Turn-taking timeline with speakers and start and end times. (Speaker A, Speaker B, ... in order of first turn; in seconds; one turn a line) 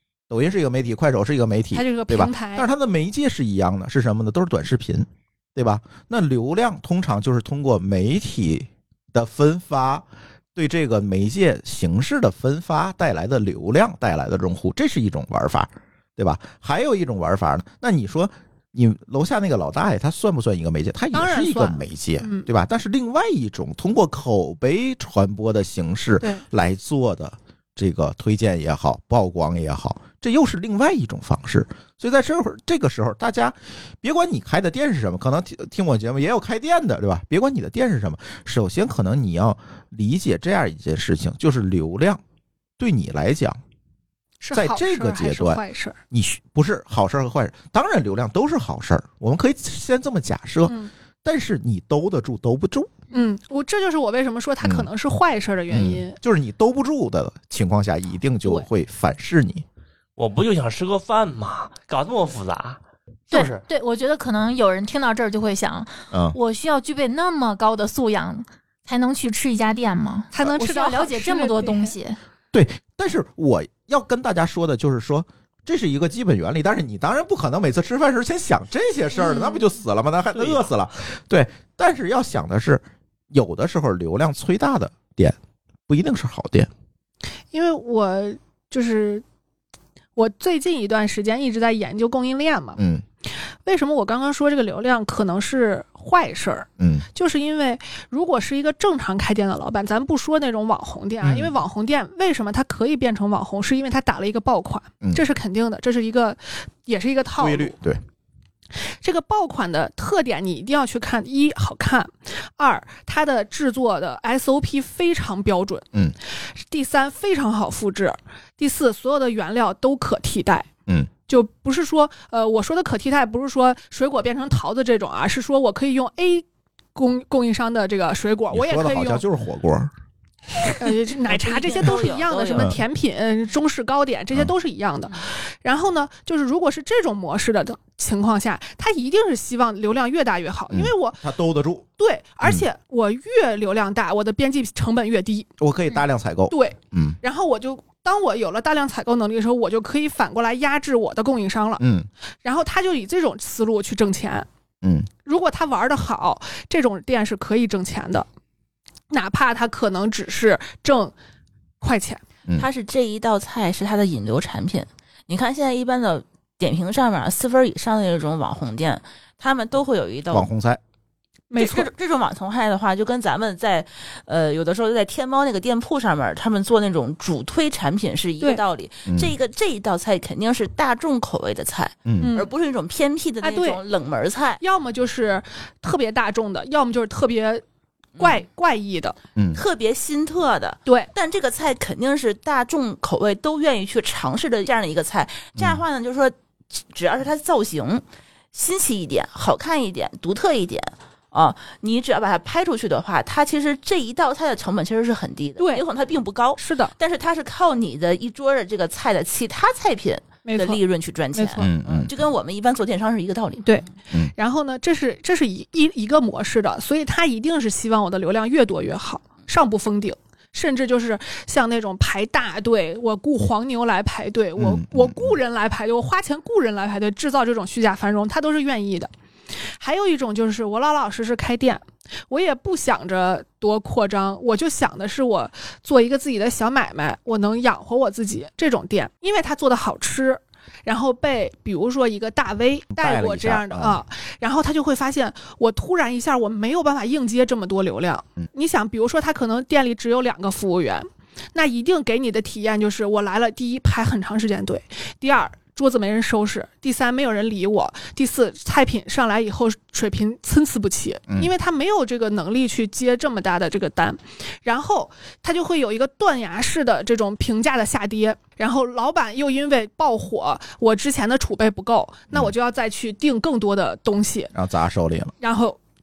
Speaker A: 0.3-42.2
Speaker B: 1.7-2.7
Speaker B: 21.1-22.5
Speaker A: 42.8-43.6
Speaker B: 44.4-46.0
Speaker A: 44.5-52.9
Speaker B: 50.7-50.9
Speaker B: 53.1-56.2
Speaker A: 54.6-54.9
Speaker A: 55.7-59.6
Speaker C: 60.2-63.6
Speaker D: 63.3-72.2
Speaker A: 66.1-66.4
Speaker B: 70.3-71.9
Speaker A: 72.5-85.4
Speaker D: 79.1-79.6
Speaker A: 85.9-86.7
Speaker B: 87.5-89.2
Speaker B: 90.2-92.8
Speaker A: 92.8-93.0
Speaker B: 93.6-107.8
Speaker A: 96.8-97.1
Speaker A: 101.2-101.5
Speaker A: 107.4-108.0
Speaker B: 109.0-115.9
Speaker B: 116.6-120.7
Speaker B: 121.3-129.2
Speaker A: 128.5-129.9
Speaker B: 130.7-141.2
Speaker E: 131.2-132.8
Speaker A: 140.7-141.9
Speaker B: 142.0-145.5
Speaker A: 145.6-147.2
Speaker B: 146.5-151.8
Speaker A: 151.8-152.1
Speaker B: 152.4-154.5
Speaker A: 154.8-155.1
Speaker B: 155.2-158.3
Speaker B: 159.1-161.1
Speaker B: 161.8-162.2
Speaker E: 162.6-170.5
Speaker A: 170.3-170.8
Speaker B: 171.5-171.9
Speaker E: 171.5-184.6
Speaker A: 179.1-179.3
Speaker A: 182.1-182.3
Speaker B: 182.2-182.5
Speaker B: 183.4-183.8
Speaker B: 184.6-187.6
Speaker E: 188.2-188.4
Speaker B: 188.2-189.2
Speaker A: 189.4-189.6
Speaker E: 189.5-213.8
Speaker A: 195.6-195.8
Speaker B: 205.6-205.8
Speaker B: 206.6-206.9
Speaker B: 210.5-210.8
Speaker B: 211.3-211.7
Speaker A: 211.6-212.1
Speaker B: 213.6-229.1
Speaker A: 224.6-225.4
Speaker B: 229.8-274.5
Speaker A: 242.9-244.0
Speaker A: 274.5-275.3
Speaker B: 275.4-275.8